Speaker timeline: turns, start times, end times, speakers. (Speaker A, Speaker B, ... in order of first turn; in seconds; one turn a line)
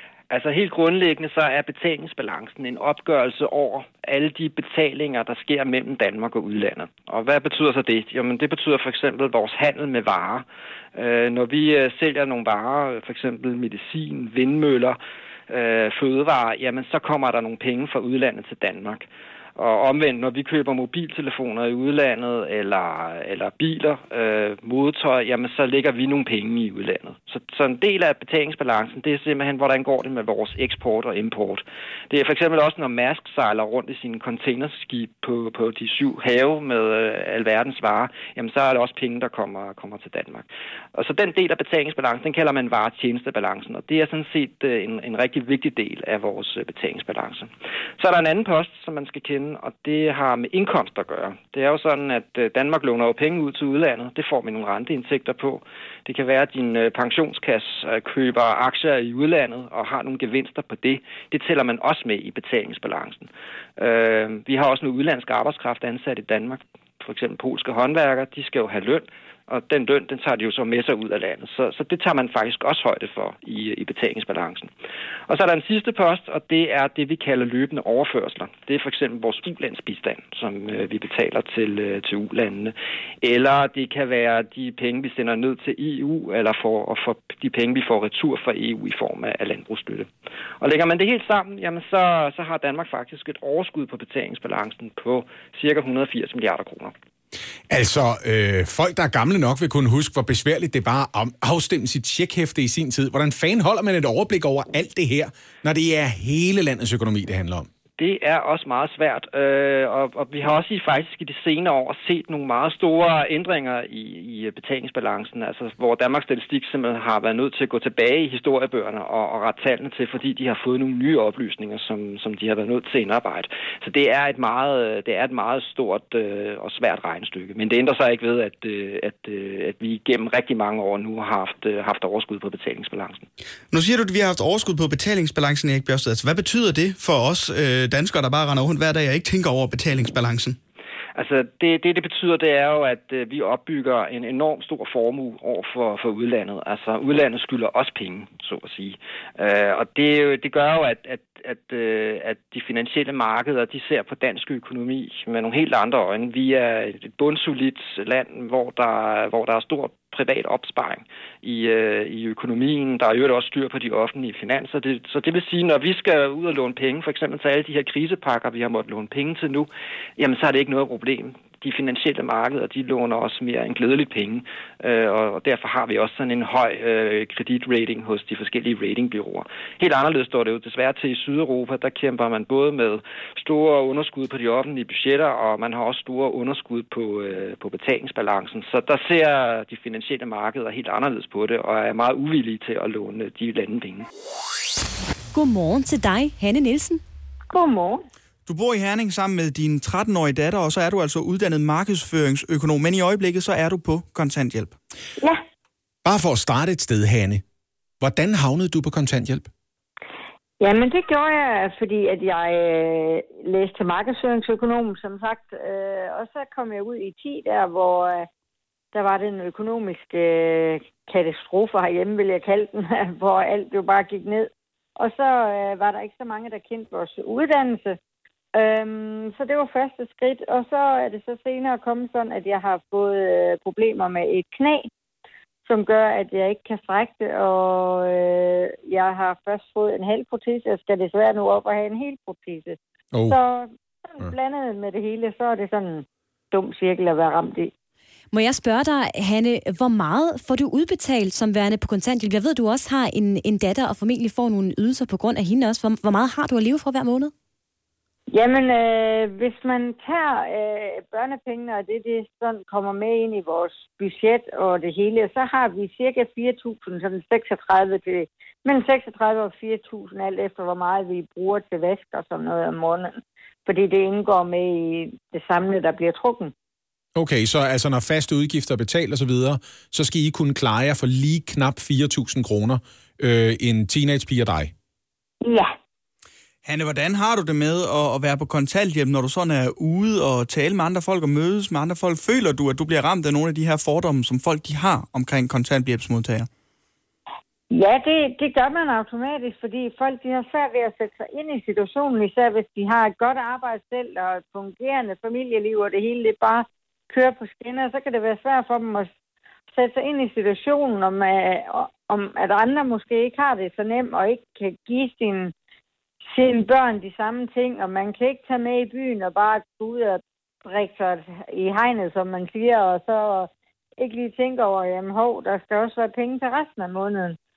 Speaker A: 0.3-15.0
Speaker A: 15.5-74.7
Speaker A: 75.3-90.1
Speaker A: 90.6-96.9
Speaker B: 97.7-107.7
Speaker A: 108.0-133.2
Speaker C: 133.7-140.6
Speaker A: 141.2-194.1
Speaker D: 195.3-197.0
Speaker E: 197.5-198.0
Speaker C: 198.4-204.7
Speaker B: 206.0-207.4
Speaker B: 208.0-209.5
Speaker E: 210.6-218.3
Speaker E: 218.9-228.0
Speaker E: 228.5-234.9
Speaker E: 235.6-247.7
Speaker B: 243.1-243.4
Speaker D: 248.3-257.3
Speaker E: 258.3-276.5
Speaker B: 277.1-284.7
Speaker E: 285.4-285.7
Speaker C: 286.6-296.5
Speaker E: 297.7-309.1
Speaker E: 309.7-315.5
Speaker E: 316.3-327.4